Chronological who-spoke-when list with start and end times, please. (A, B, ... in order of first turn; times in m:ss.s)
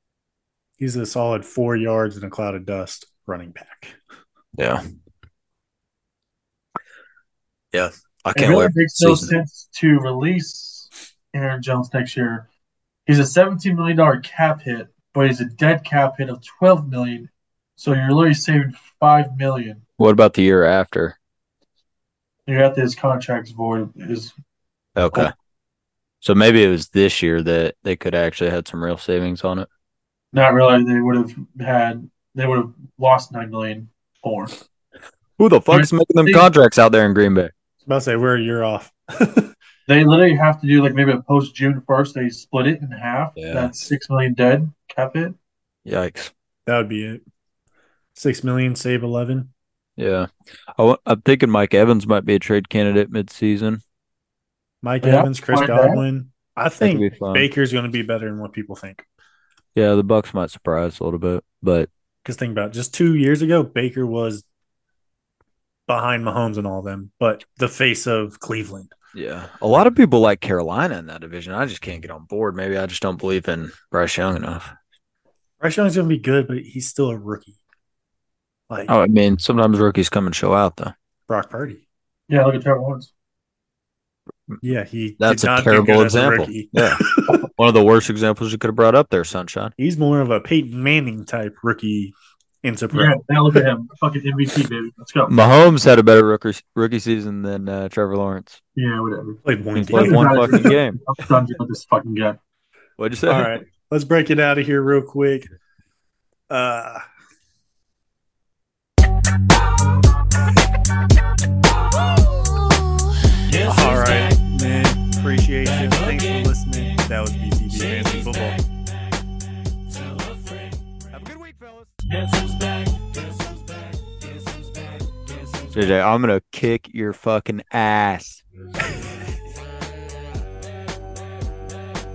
0:00.8-0:04.0 A
0:07.7-0:09.3 B
0:08.3-0:12.5 C
0:13.1-0:19.8 C
0:20.0-0:21.2 B
0:22.5-0:24.3 C
0:25.0-0:25.3 B
0:26.2-0:29.7 B
0:30.3-0:34.5 C
0:35.4-0:37.5 B
0:35.7-0:36.5 C
0:37.9-0:39.5 A
0:39.9-0:45.4 C
0:43.4-0:43.7 B
0:45.9-0:46.3 B
0:46.7-0:47.2 A
0:48.2-0:49.5 A
0:50.0-0:53.8 B
0:54.8-0:59.1 A
0:55.0-0:56.0 C
0:56.8-0:57.5 B
0:59.8-1:01.9 B
1:02.2-1:04.5 A
1:05.9-1:08.9 A
1:09.1-1:14.7 B
1:15.6-1:17.6 A
1:18.7-1:18.9 A
1:18.9-1:20.9 B
1:21.3-1:21.8 A
1:22.3-1:23.1 C
1:24.6-1:27.4 A
1:25.2-1:29.7 B
1:29.8-1:33.2 A
1:32.9-1:35.4 C
1:35.3-1:38.6 B
1:38.8-1:42.4 C
1:39.4-1:40.8 A
1:39.8-1:41.0 B
1:43.0-1:43.5 B
1:43.3-1:45.5 A
1:46.5-1:47.0 A
1:53.6-1:58.6 A
2:01.1-2:02.0 B
2:05.7-2:08.4 B